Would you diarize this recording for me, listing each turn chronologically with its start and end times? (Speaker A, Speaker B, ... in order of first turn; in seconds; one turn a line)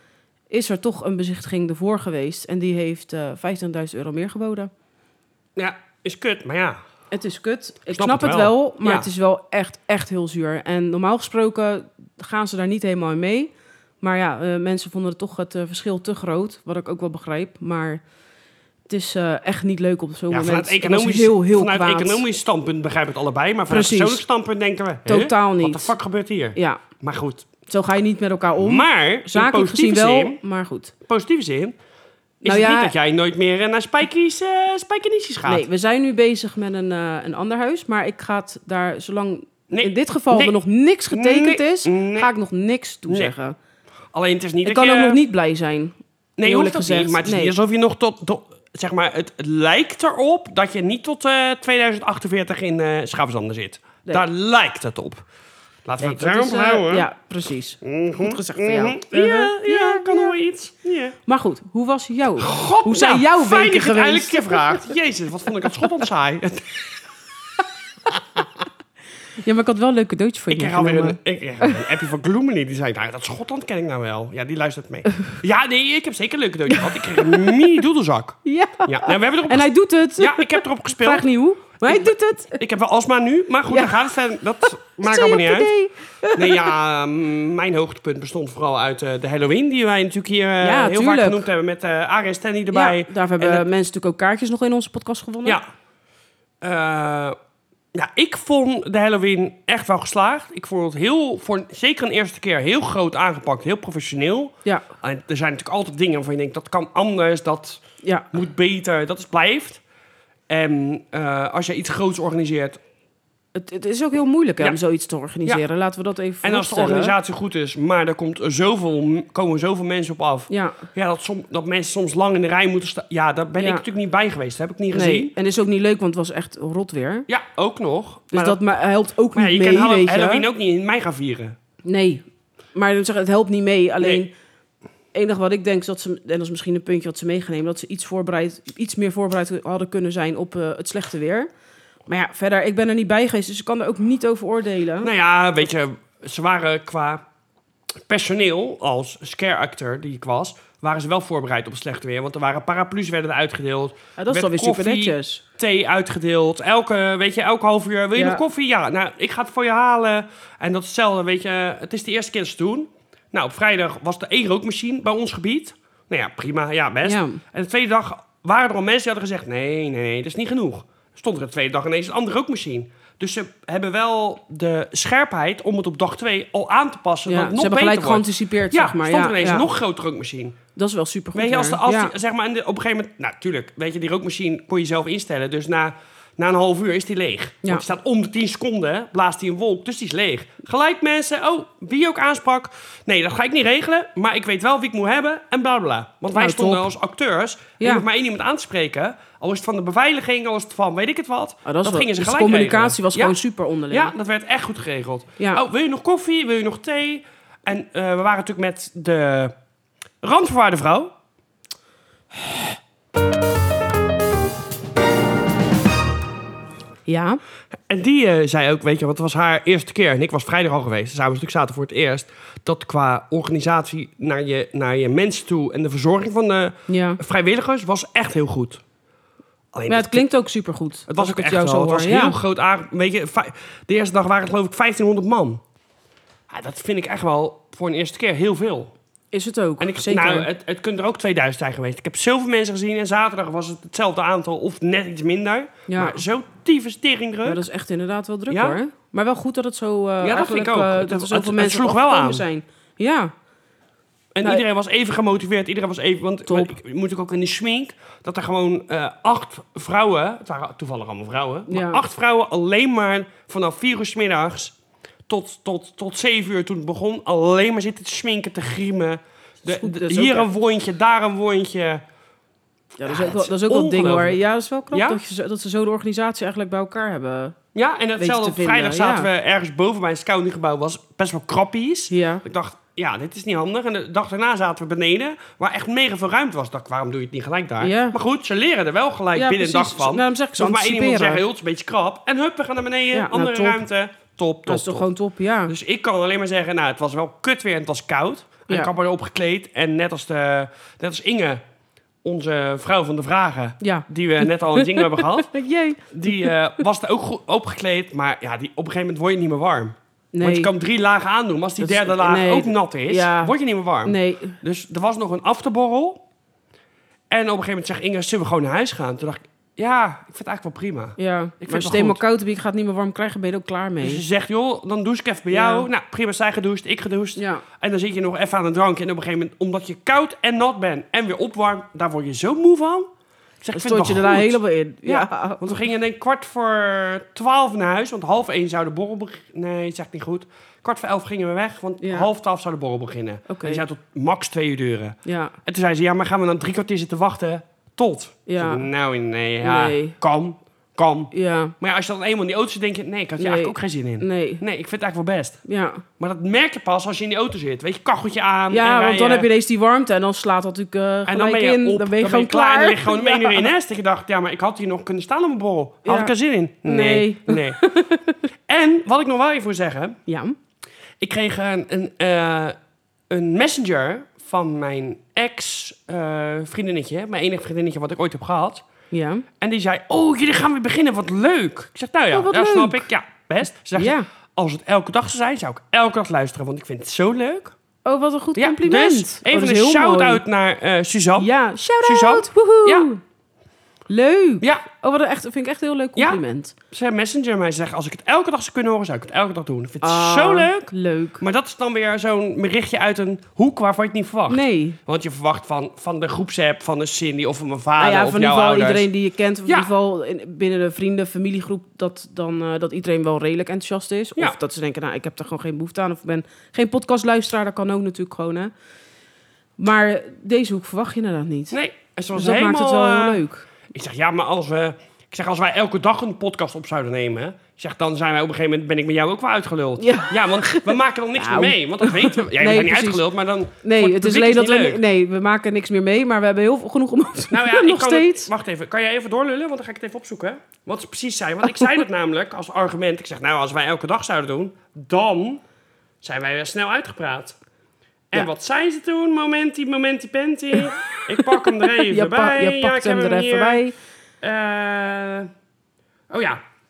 Speaker A: 0.5-4.7
Speaker B: 5.6-6.8
Speaker A: 7.1-18.0
Speaker B: 7.9-9.1
Speaker A: 18.9-22.2
Speaker B: 20.3-27.5
Speaker A: 23.7-24.2
Speaker A: 25.1-25.9
Speaker A: 26.6-26.8
Speaker A: 27.7-30.9
Speaker B: 28.6-30.4
Speaker B: 31.1-31.8
Speaker B: 32.4-35.7
Speaker A: 32.4-33.0
Speaker A: 35.5-43.6
Speaker B: 39.7-40.6
Speaker B: 41.1-42.3
Speaker B: 43.1-43.3
Speaker B: 44.1-45.2
Speaker A: 44.6-47.5
Speaker B: 46.4-55.2
Speaker B: 55.9-57.1
Speaker A: 56.0-60.3
Speaker B: 57.8-61.2
Speaker A: 61.3-64.8
Speaker B: 62.4-66.9
Speaker A: 69.4-71.8
Speaker B: 70.5-81.3
Speaker A: 76.7-77.6
Speaker A: 78.5-82.6
Speaker B: 81.8-85.7
Speaker A: 83.7-84.0
Speaker A: 85.0-86.8
Speaker B: 86.3-93.7
Speaker A: 90.6-91.5
Speaker A: 92.7-95.6
Speaker B: 96.6-97.4
Speaker B: 97.9-109.8
Speaker A: 108.0-108.3
Speaker B: 110.5-112.8
Speaker A: 113.5-117.2
Speaker B: 116.4-125.3
Speaker A: 120.5-120.8
Speaker A: 123.6-123.8
Speaker A: 124.9-127.3
Speaker B: 127.3-128.6
Speaker A: 128.3-130.5
Speaker B: 129.3-131.6
Speaker A: 131.8-134.3
Speaker B: 134.0-134.3
Speaker A: 135.1-141.5
Speaker A: 142.1-145.1
Speaker B: 145.0-147.2
Speaker B: 148.1-180.6
Speaker A: 154.2-155.4
Speaker A: 158.2-158.4
Speaker A: 167.0-167.4
Speaker A: 177.3-179.7
Speaker A: 180.8-182.1
Speaker B: 181.3-203.4
Speaker A: 196.3-196.9
Speaker A: 197.8-198.1
Speaker A: 201.7-204.1
Speaker B: 203.9-209.6
Speaker B: 210.2-211.1
Speaker A: 217.1-217.4
Speaker B: 217.9-228.8
Speaker A: 226.9-227.2
Speaker B: 229.7-230.3
Speaker A: 229.9-232.4
Speaker B: 231.1-235.6
Speaker B: 236.5-238.9
Speaker A: 239.3-240.5
Speaker B: 239.8-247.6
Speaker A: 245.9-246.2
Speaker A: 247.4-253.3
Speaker B: 248.5-248.8
Speaker B: 250.2-252.4
Speaker B: 254.3-264.8
Speaker A: 256.5-256.7
Speaker A: 261.7-262.0
Speaker B: 265.3-272.0
Speaker A: 269.6-270.5
Speaker A: 273.0-277.6
Speaker B: 273.1-275.2
Speaker B: 277.8-295.1
Speaker A: 278.2-279.3
Speaker A: 282.1-282.4
Speaker A: 287.8-288.2
Speaker A: 289.4-291.4
Speaker A: 293.1-293.9
Speaker A: 294.7-295.7
Speaker B: 295.7-301.6
Speaker B: 302.2-305.6
Speaker A: 303.8-306.5
Speaker B: 306.1-316.2
Speaker A: 310.3-310.7
Speaker A: 311.8-314.6
Speaker B: 317.3-322.2
Speaker A: 321.2-324.2
Speaker B: 324.0-333.1
Speaker A: 325.5-325.9
Speaker A: 327.4-327.6
Speaker B: 333.6-359.5
Speaker A: 333.7-335.6
Speaker A: 342.0-342.3
Speaker A: 343.5-343.8
Speaker A: 345.2-345.5
Speaker A: 348.5-348.9
Speaker A: 349.6-350.2
Speaker A: 351.3-351.7
Speaker A: 353.4-354.6
Speaker A: 355.6-356.0
Speaker A: 358.7-363.7
Speaker B: 361.3-367.8
Speaker A: 366.1-368.3
Speaker B: 368.7-370.2
Speaker A: 370.3-370.6
Speaker B: 371.2-372.8
Speaker B: 373.3-378.8
Speaker A: 379.1-379.4
Speaker B: 379.6-387.8
Speaker A: 382.3-383.1
Speaker A: 384.0-384.3
Speaker A: 388.1-390.4
Speaker B: 388.6-391.5
Speaker A: 391.4-393.2
Speaker B: 392.0-393.1
Speaker A: 394.1-396.7
Speaker B: 396.2-409.1
Speaker A: 400.0-401.4
Speaker A: 404.5-405.0
Speaker A: 408.0-418.7
Speaker B: 409.7-409.9
Speaker A: 419.8-421.8
Speaker B: 421.7-435.0
Speaker A: 422.3-423.7
Speaker A: 430.0-433.2
Speaker A: 433.8-438.5
Speaker B: 437.5-445.6
Speaker B: 446.2-447.6
Speaker B: 448.3-453.8
Speaker A: 451.8-453.9
Speaker B: 454.4-455.5
Speaker B: 456.3-456.6